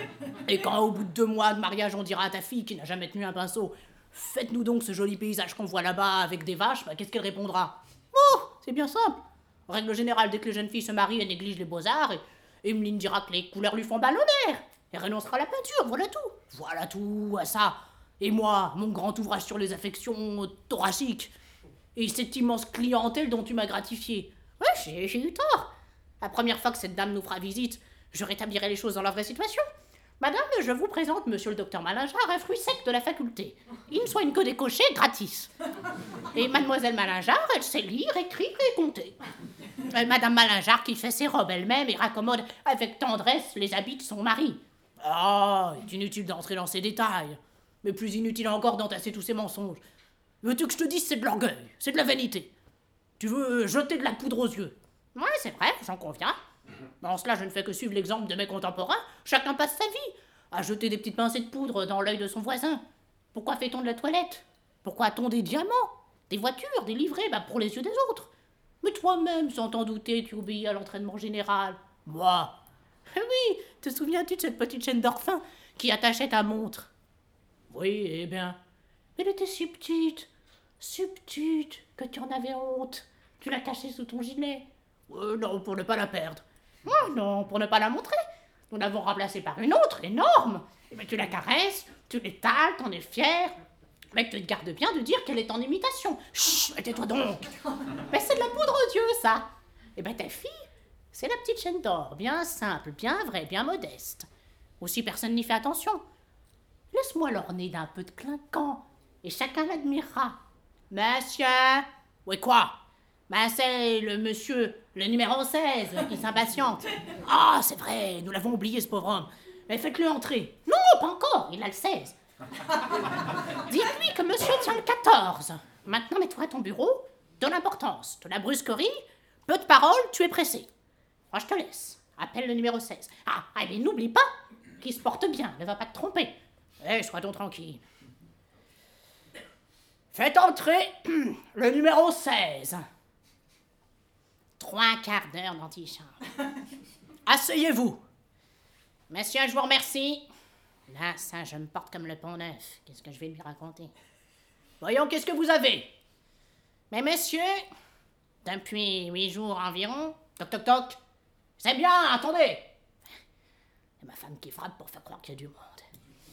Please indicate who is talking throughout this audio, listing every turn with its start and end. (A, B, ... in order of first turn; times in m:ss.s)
0:00.4-0:21.3 A
0:22.0-0:29.6 A
0:30.2-0:35.5 A
0:36.3-0:39.2 A
0:39.8-0:49.8 A
0:50.4-0:52.5 A
0:53.2-0:56.4 A
0:57.0-1:02.8 A
1:03.3-1:08.3 A
1:08.8-1:12.6 A
1:13.1-1:16.9 A
1:17.7-1:18.6 A
1:19.2-1:28.2 A
1:28.7-1:33.6 A
1:34.1-1:37.5 A
1:38.1-1:44.3 A
1:44.8-1:46.0 A
1:46.9-1:50.4 A
1:50.9-1:52.8 A
1:53.3-2:02.2 A
2:03.7-2:10.7 A
2:11.3-2:14.3 A
2:14.8-2:17.8 A
2:20.1-2:22.8 A
2:24.6-2:26.2 A
2:27.3-2:28.0 A
2:29.1-2:30.3 A
2:30.9-2:33.9 A
2:34.8-2:35.9 A
2:36.9-2:37.6 A
2:38.4-2:41.0 A
2:41.6-2:42.7 A
2:44.0-2:45.9 A